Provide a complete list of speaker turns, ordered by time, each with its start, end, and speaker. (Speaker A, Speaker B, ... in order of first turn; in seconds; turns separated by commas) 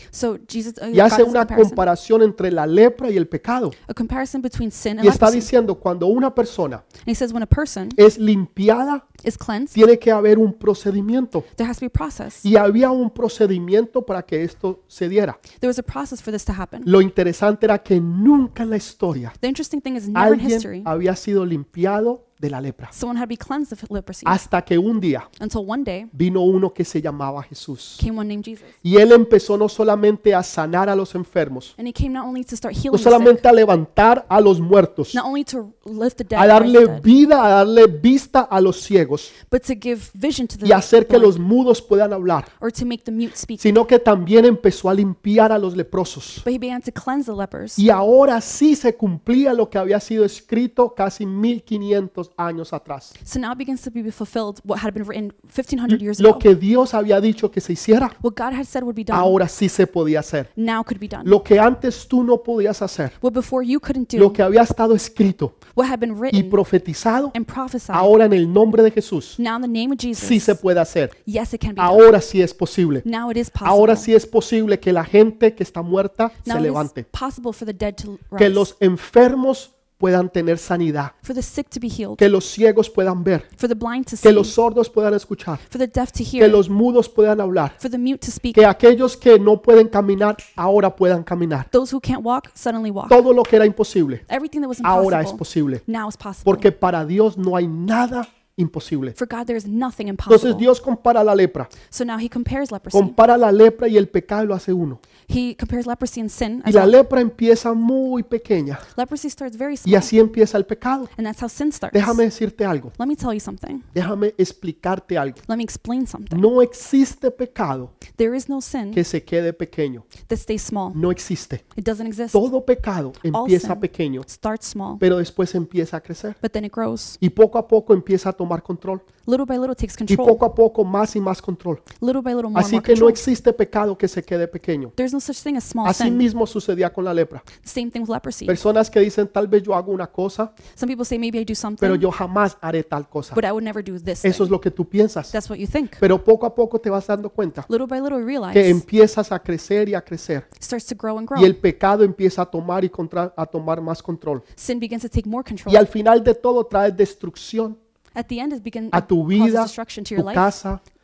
Speaker A: 0.1-1.9, Speaker B: 0.9-3.8, Speaker A: 3.9-5.5, Speaker B: 5.0-6.8, Speaker A: 7.0-8.0, Speaker B: 8.0-9.1, Speaker A: 9.2-9.8, Speaker B: 9.7-11.5, Speaker A: 11.6-12.4, Speaker B: 12.4-15.4, Speaker A: 15.6-16.9, Speaker B: 16.9-19.4, Speaker A: 19.4-20.9, Speaker B: 20.1-22.9, Speaker A: 22.9-24.4, Speaker B: 24.3-25.3, Speaker A: 25.4-26.1, Speaker B: 26.1-28.0, Speaker A: 28.0-28.8, Speaker B: 28.8-31.7, Speaker A: 31.8-33.4, Speaker B: 32.9-35.2, Speaker A: 35.1-37.1, Speaker B: 36.4-39.3, Speaker A: 39.5-41.4, Speaker B: 40.6-42.5, Speaker A: 42.6-43.8, Speaker B: 43.6-46.4, Speaker A: 46.4-47.8, Speaker B: 47.8-53.1, Speaker A: 53.2-56.5, Speaker B: 55.9-58.1, Speaker A: 58.2-59.4, Speaker B: 59.1-60.5, Speaker A: 60.6-61.4, Speaker B: 61.2-63.1, Speaker A: 63.2-64.4, Speaker B: 64.2-65.5, Speaker A: 65.7-66.6, Speaker B: 66.3-67.3, Speaker A: 67.3-68.1, Speaker B: 67.9-69.4, Speaker A: 69.4-70.6, Speaker B: 70.2-71.1, Speaker A: 71.2-72.1, Speaker B: 71.8-73.0, Speaker A: 73.0-74.1, Speaker B: 73.6-77.1, Speaker A: 76.5-78.7, Speaker B: 78.4-81.1, Speaker A: 81.2-82.2, Speaker B: 82.2-83.5, Speaker A: 83.6-84.5, Speaker B: 84.2-85.6, Speaker A: 85.7-86.6, Speaker B: 86.4-87.8, Speaker A: 87.8-88.7, Speaker B: 88.5-91.7, Speaker A: 91.7-93.3, Speaker B: 93.1-94.2, Speaker A: 94.3-96.7, Speaker B: 94.8-95.8, Speaker B: 96.5-99.2, Speaker A: 99.2-100.7, Speaker B: 100.3-101.7, Speaker A: 101.9-103.2, Speaker B: 102.9-105.0, Speaker A: 105.3-107.0, Speaker B: 106.7-108.8, Speaker A: 108.9-110.1, Speaker B: 109.9-111.1, Speaker A: 111.2-112.2, Speaker B: 111.9-112.9, Speaker A: 113.0-113.9, Speaker B: 113.9-115.4, Speaker A: 115.5-116.5, Speaker B: 116.3-117.9, Speaker A: 118.2-119.0, Speaker B: 118.9-120.1, Speaker A: 120.2-121.0, Speaker B: 120.9-121.6, Speaker A: 121.8-122.4, Speaker B: 122.3-124.3, Speaker A: 123.3-125.0, Speaker B: 125.0-126.4, Speaker A: 126.4-127.2, Speaker B: 127.2-129.1, Speaker A: 129.3-130.4, Speaker B: 130.1-131.8, Speaker A: 132.0-133.2, Speaker B: 132.6-134.9, Speaker A: 135.0-136.2, Speaker B: 135.8-137.4, Speaker A: 137.6-138.6, Speaker B: 138.5-140.5, Speaker A: 140.7-142.1, Speaker B: 141.8-143.4, Speaker A: 143.3-144.6, Speaker B: 144.2-145.3, Speaker A: 145.3-146.0, Speaker B: 146.0-147.7, Speaker A: 147.7-148.8, Speaker B: 148.5-150.5, Speaker A: 150.6-151.6, Speaker B: 151.3-154.4, Speaker A: 154.6-155.9, Speaker B: 155.7-157.8, Speaker A: 158.2-160.5, Speaker B: 158.9-160.8